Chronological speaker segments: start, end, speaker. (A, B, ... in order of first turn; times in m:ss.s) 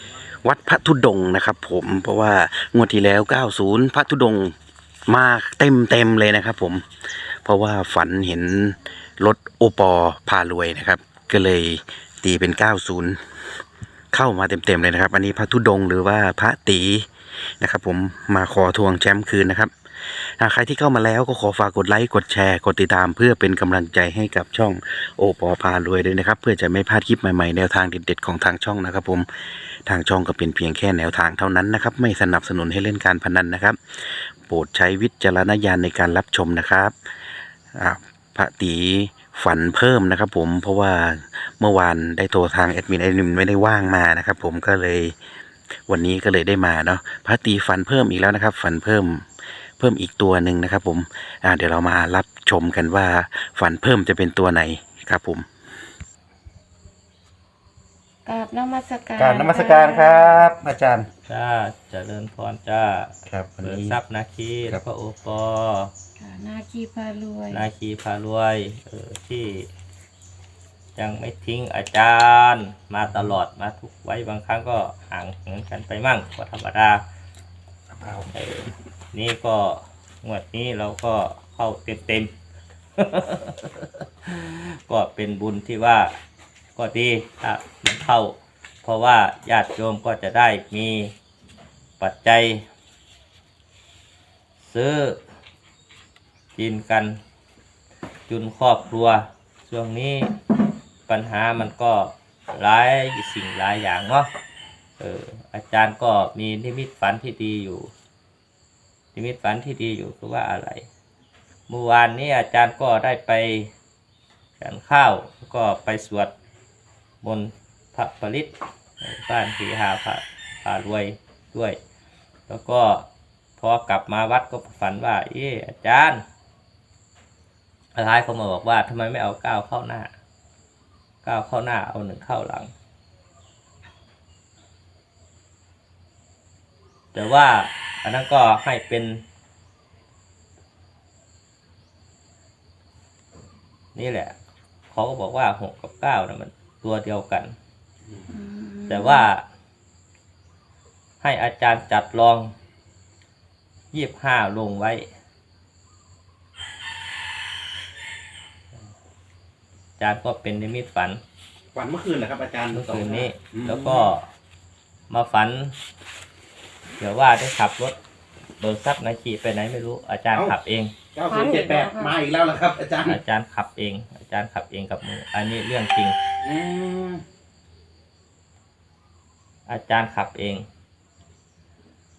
0:00.4-0:04.5 A
0:05.1-0:06.8 A
0:07.4-0:13.2 A
0:14.1-0:17.1 A
0:17.6-0:29.3 A
0:29.8-0:33.8 A
0:34.5-0:36.9 A
0:37.7-0:45.1 A
0:45.9-0:49.3 A
0:49.8-0:55.4 A
0:58.2-1:00.4 B
0:59.2-1:01.1 A
1:01.3-1:05.9 C
1:03.3-1:04.0 A
1:06.2-1:07.6 B
1:07.5-1:09.7 C
1:11.0-1:17.0 C
1:13.1-1:13.4 A
1:17.9-1:18.3 A
1:18.3-1:22.3 C
1:23.0-1:26.2 C
1:26.8-1:31.1 C
1:32.0-1:32.7 C
1:34.6-1:35.2 C
1:36.5-1:37.2 C
1:38.3-1:40.3 C
1:41.1-1:44.3 C
1:45.0-1:47.9 C
1:49.1-1:50.8 C
1:51.7-1:53.7 C
1:54.6-1:56.3 C
1:57.2-2:01.8 C
2:02.5-2:06.2 C
2:07.9-2:10.1 C
2:11.2-2:12.7 C
2:17.1-2:19.2 C
2:23.9-2:24.4 C
2:24.9-2:27.5 C
2:28.3-2:29.3 B
2:28.9-2:29.4 C
2:31.2-2:32.5 C
2:33.9-2:35.1 C
2:40.0-2:41.2 C
2:41.7-2:44.1 A
2:42.7-2:44.3 C
2:45.1-2:45.8 C
2:47.0-2:48.0 C
2:48.6-2:50.9 C
2:51.1-2:53.2 A
2:51.3-2:52.2 B
2:53.0-2:56.2 C
2:56.4-2:57.2 A
2:59.7-3:00.7 C